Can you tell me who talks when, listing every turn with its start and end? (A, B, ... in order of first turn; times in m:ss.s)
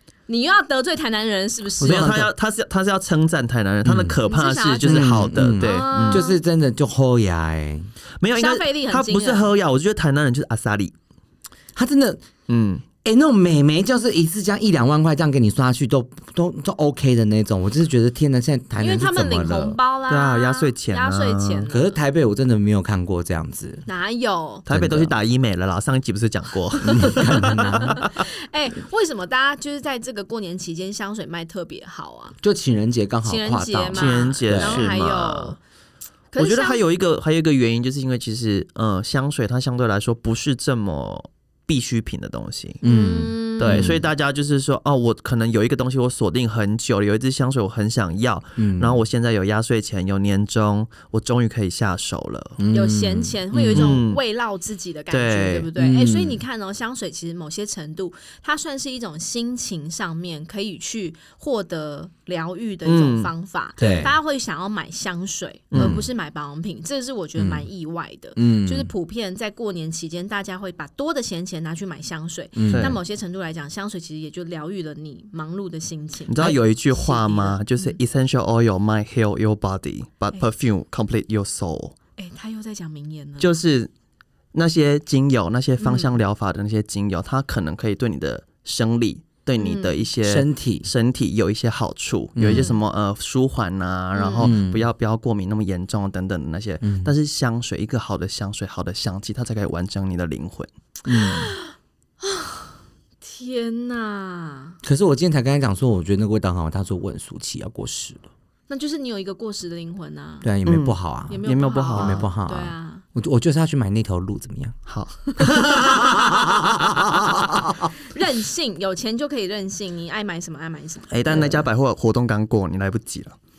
0:00.3-0:02.2 A
0:01.8-0:02.3 B
0:01.8-0:06.2 C
0:03.8-0:04.2 B
0:04.3-0:06.4 A
0:04.8-0:07.9 B
0:08.2-0:10.9 C
0:08.4-0:09.5 A
0:11.8-0:12.2 B
0:12.5-0:12.8 C
0:13.0-0:19.8 B
0:18.8-0:22.0 A
0:20.1-0:21.7 C
0:21.7-0:23.9 B
0:23.9-0:24.7 A
0:24.7-0:28.2 C
0:24.7-0:25.1 B
0:26.8-0:28.0 B
0:27.0-0:32.4 A
0:32.4-0:34.9 B
0:33.2-0:35.6 A
0:33.9-0:35.6 C
0:36.3-0:36.8 A
0:36.4-0:42.8 C
0:42.8-0:43.9 A
0:42.8-0:44.1 B
0:43.6-0:52.6 C
0:48.6-0:49.0 B
0:52.6-0:54.0 B
0:52.7-1:18.0 A
0:53.6-0:54.2 C
0:55.1-0:55.7 C
0:55.8-0:56.4 B
1:02.8-1:03.3 C
1:03.8-1:04.1 B
1:05.7-1:06.0 C
1:05.7-1:06.1 B
1:07.4-1:07.7 B
1:08.4-1:08.9 B
1:12.6-1:13.0 B
1:12.7-1:13.0 C
1:16.3-1:22.0 C
1:22.2-1:23.5 A
1:23.4-1:23.9 C
1:24.5-1:40.7 C
1:25.8-1:26.2 A
1:29.6-1:30.0 A
1:30.2-1:30.9 B
1:32.4-1:32.7 B
1:32.4-1:32.8 A
1:34.1-1:34.5 A
1:34.4-1:34.8 B
1:36.8-1:37.1 B
1:41.1-1:41.5 B
1:41.1-1:44.8 A
1:44.8-1:48.3 B
1:48.7-1:50.5 A
1:50.4-1:51.4 B
1:50.7-1:52.3 C
1:51.3-1:53.0 A
1:51.9-1:54.8 B
1:54.9-1:56.5 C
1:55.4-1:57.8 B
1:58.1-2:01.2 A
2:01.1-2:03.4 C
2:01.3-2:01.6 B